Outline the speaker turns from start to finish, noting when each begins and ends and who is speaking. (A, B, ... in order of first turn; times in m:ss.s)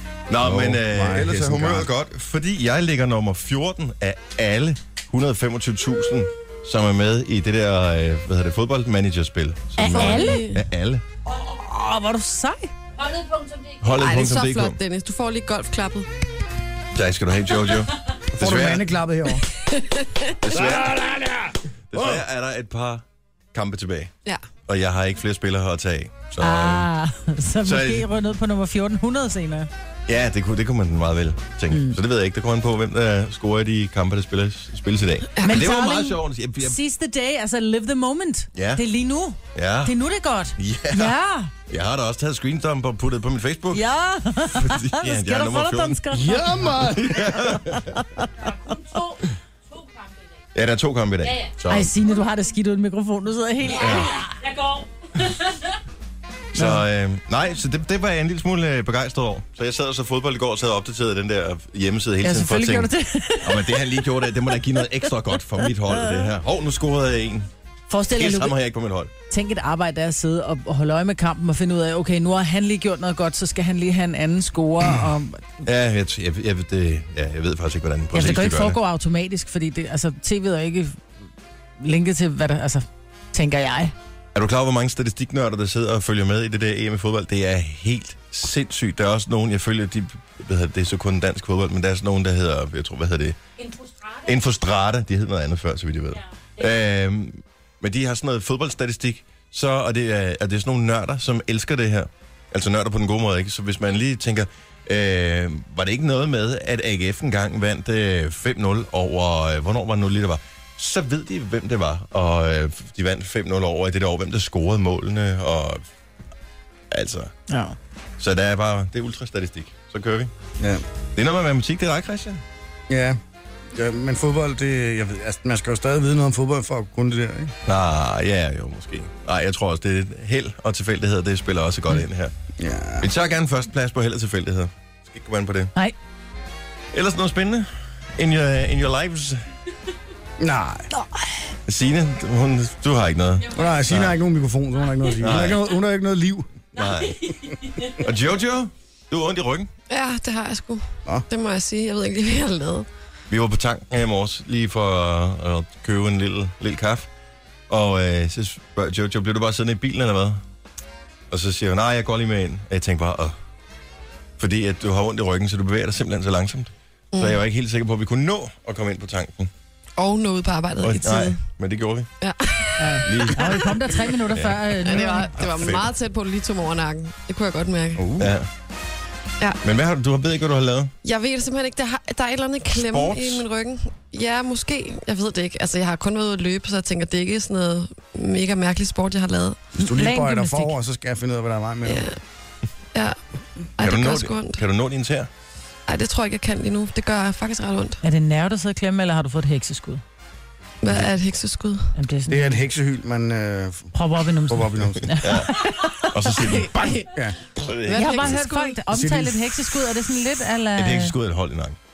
0:00.3-0:11.0 A
0:00.4-0:01.9 B
0:09.8-0:10.5 C
0:09.8-0:10.6 D
0:11.3-0:12.7 C
0:13.0-0:13.8 E
0:13.8-0:14.8 A
0:13.9-0:16.1 D
0:16.9-0:18.9 A
0:18.3-0:19.4 B
0:19.8-0:20.1 D
0:20.4-0:21.0 A
0:20.5-0:22.2 B
0:21.9-0:24.1 A
0:24.7-0:26.9 A
0:26.4-0:29.7 C
0:27.6-0:28.1 A
0:30.1-0:36.8 A
0:31.7-0:32.0 C
0:35.4-0:35.7 D
0:35.4-0:41.5 C
0:38.5-0:38.8 A
0:39.5-0:39.9 A
0:40.6-0:41.1 A
0:41.7-0:43.8 A
0:43.7-0:46.7 C
0:44.5-0:46.0 A
0:46.1-0:47.5 B
0:46.7-0:47.8 A
0:47.6-0:48.5 C
0:48.4-0:50.2 E
0:50.5-0:51.9 A
0:51.2-0:51.5 E
0:51.7-0:54.2 C
0:53.7-0:55.6 E
0:53.7-0:54.2 A
0:56.5-1:07.5 A
1:02.2-1:04.9 C
1:07.9-1:08.5 C
1:08.1-1:09.1 A
1:09.3-1:15.4 C
1:15.6-1:18.8 A
1:18.1-1:21.0 C
1:21.8-1:23.9 C
1:24.3-1:33.4 A
1:33.6-1:34.3 E
1:34.2-1:55.8 A
1:56.9-1:57.3 A
1:57.5-1:57.8 C
1:58.2-2:00.3 A
2:01.1-2:02.4 A
2:02.9-2:03.2 B
2:03.7-2:07.5 B
2:07.6-2:12.3 A
2:12.6-2:13.1 B
2:13.0-2:15.7 A
2:16.9-2:19.4 A
2:20.4-2:20.9 B
2:21.6-2:24.2 A
2:23.5-2:26.5 B
2:25.2-2:25.6 A
2:26.7-2:27.4 A
2:27.2-2:27.9 E
2:27.9-2:29.7 A
2:29.9-2:32.9 D
2:33.3-2:37.1 A
2:37.7-2:40.4 A
2:41.3-2:43.4 A
2:44.4-2:49.5 A
2:47.1-2:47.4 D
2:50.0-2:51.4 D
2:50.8-2:52.1 A
2:52.2-2:53.3 D
2:52.8-2:55.4 C
2:53.0-2:55.9 A
2:54.8-2:58.2 D
2:58.0-2:58.3 B
2:58.2-2:58.5 A
2:59.6-3:00.9 A
3:01.0-3:09.6 D
3:02.8-3:03.4 A
3:09.8-3:10.7 C
3:09.8-3:12.0 B
3:11.8-3:12.2 D
3:13.8-3:14.6 D
3:13.8-3:15.3 A
3:15.9-3:18.0 D
3:18.0-3:20.0 C
3:20.8-3:21.9 D
3:22.0-3:22.6 C
3:22.3-3:23.9 B
3:23.9-3:26.1 C
3:24.5-3:25.1 B
3:25.2-3:27.0 A
3:26.4-3:27.2 D
3:27.1-3:27.4 B
3:27.6-3:28.4 A
3:27.8-3:28.8 D
3:27.9-3:31.1 C
3:28.9-3:29.5 B
3:30.7-3:31.8 A